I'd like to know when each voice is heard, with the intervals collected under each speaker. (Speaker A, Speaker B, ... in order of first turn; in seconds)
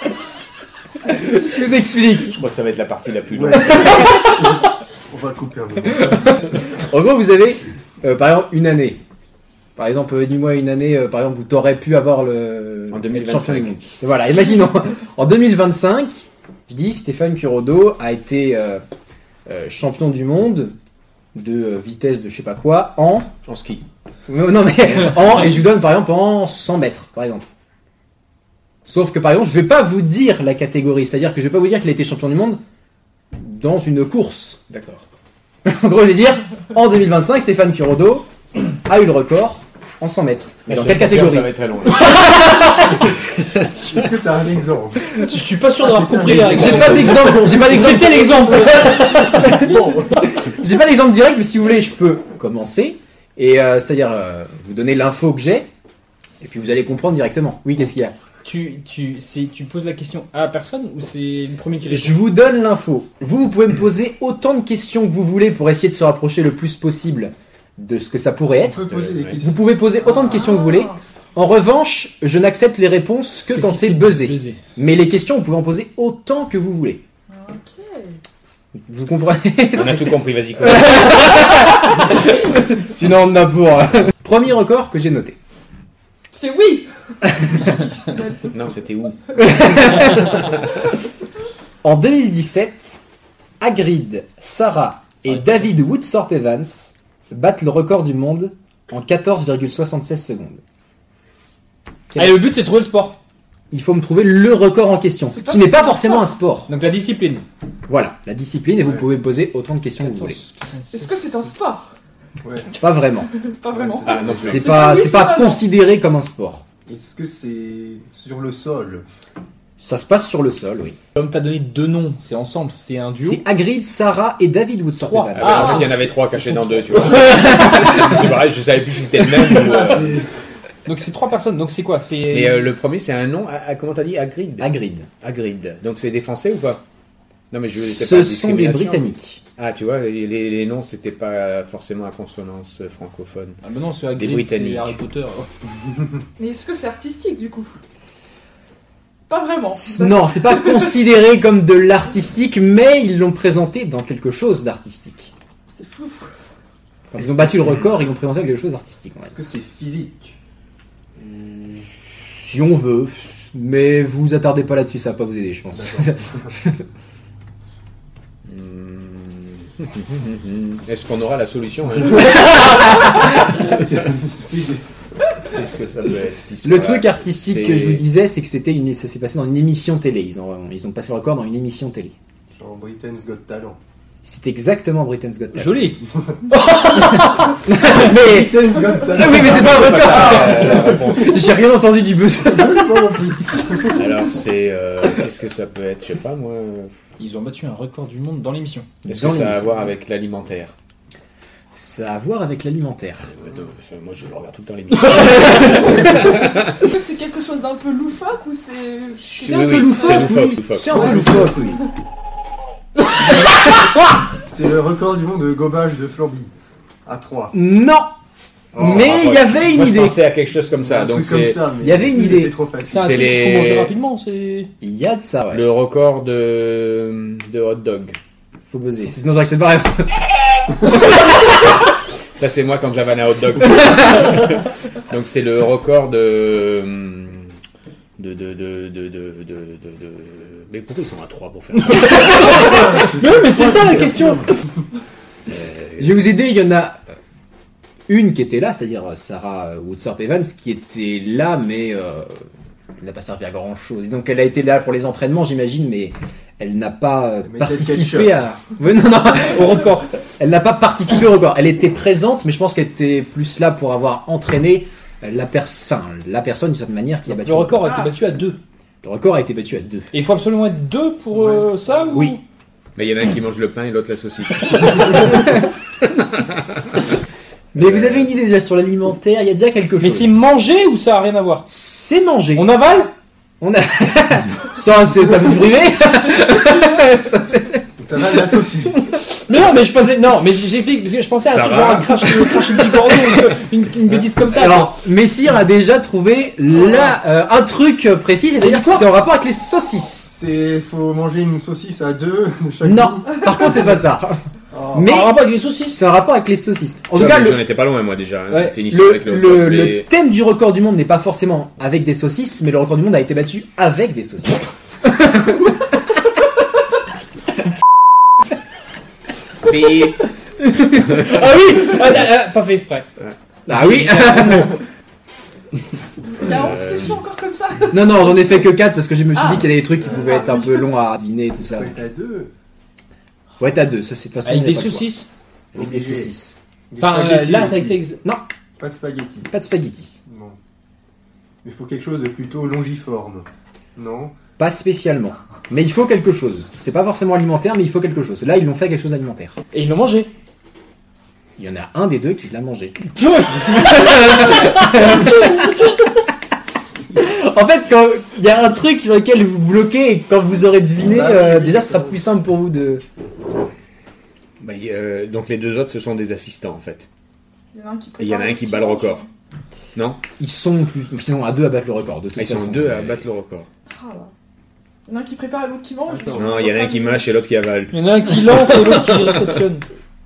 Speaker A: 1.0-2.3, 3.8-4.4, 6.0-9.0, 9.8-18.8, 19.5-20.7, 21.4-23.3, 24.3-27.5, 28.9-32.6, 33.3-34.6, 35.6-43.0, 46.4-55.7, 56.4-58.1, 61.9-77.0, 78.7-85.4, 89.4-90.4, 91.8-93.0, 93.6-100.6, 102.1-102.4, 103.7-106.7, 107.9-110.4, 112.7-113.3, 114.5-116.6, 119.8-121.0, 123.2-125.9, 134.6-135.1, 137.7-139.4, 149.8-155.3, 157.1-159.3, 161.2-166.8, 176.6-182.2, 184.2-186.0, 186.9-193.7, 199.0-199.9, 201.7-203.3, 209.2-211.9, 217.5-218.1, 218.8-220.2, 221.8-222.6, 224.8-225.6, 228.7-230.2, 246.0-247.1, 248.1-252.4, 253.0-268.0, 269.0-270.1, 272.1-272.4, 277.7-280.3, 281.7-282.8, 283.6-289.1, 294.5-300.3, 302.8-304.4, 304.9-307.6, 308.5-315.8, 323.7-324.8, 327.9-332.0, 333.6-335.1, 335.7-336.6, 339.5-340.2, 344.6-349.6, 351.6-356.0, 357.1-363.0, 370.4-373.2
Speaker B: 2.2-4.2, 12.9-13.8, 23.4-23.8, 34.7-35.1, 40.7-42.3, 68.9-69.4, 79.7-81.3, 88.5-89.4, 114.0-114.9, 125.4-130.2, 132.3-136.8, 137.5-143.6, 144.2-145.0, 168.4-172.9, 175.5-178.1, 189.2-191.5, 193.9-196.9, 199.1-200.8, 203.3-206.8, 209.2-211.2, 218.8-221.7, 222.9-223.9, 225.5-228.2, 232.4-237.5, 238.2-242.7, 245.5-246.2, 273.0-277.0, 277.8-278.3, 291.4-292.6, 307.2-310.1, 319.6-320.2, 326.4-327.2, 364.6-367.1, 368.2-369.2, 370.0-370.2, 372.4-373.7, 376.3-379.4
Speaker C: 3.3-6.2, 43.8-45.2, 45.8-50.3, 68.6-69.6, 112.4-112.7, 113.7-114.6, 116.9-119.0, 129.5-130.3, 159.3-160.4, 165.7-166.5, 173.3-174.8, 182.5-183.8, 186.0-186.4, 187.7-191.4, 192.5-194.1, 210.9-211.8, 214.4-216.5, 217.1-217.5, 218.7-219.1, 220.8-223.2, 242.0-244.8, 257.4-258.4, 271.4-271.6, 288.0-289.2, 300.3-303.9, 304.7-305.1, 330.0-330.4, 331.7-332.5, 335.7-336.3, 336.9-338.0, 338.8-339.5, 340.3-340.6, 341.6-344.3, 361.0-362.2, 376.1-376.8
Speaker D: 45.1-49.3, 58.5-62.2, 73.5-74.6, 102.2-103.2, 106.7-107.5, 110.0-111.5, 121.1-123.4, 125.0-127.6, 130.9-132.7, 143.6-145.5, 185.5-187.6, 197.2-198.9, 222.9-224.7, 241.9-244.5, 259.4-260.1, 267.3-268.6, 270.1-272.4, 280.0-281.7, 282.6-283.1, 289.4-295.0, 298.6-299.1, 305.1-306.0, 321.0-323.1, 323.7-324.7, 334.4-335.3, 337.0-338.2, 349.7-350.3, 353.2-355.9, 377.9-379.9
Speaker E: 70.1-71.0, 77.3-78.2, 86.3-88.6, 90.2-90.5, 105.3-106.3, 110.9-112.0, 113.3-115.6, 146.4-147.7, 149.3-150.9, 155.8-156.3, 205.6-210.3, 267.8-268.1, 286.4-287.0, 326.2-328.5, 329.3-330.9, 367.7-369.3, 373.9-374.3, 375.1-377.2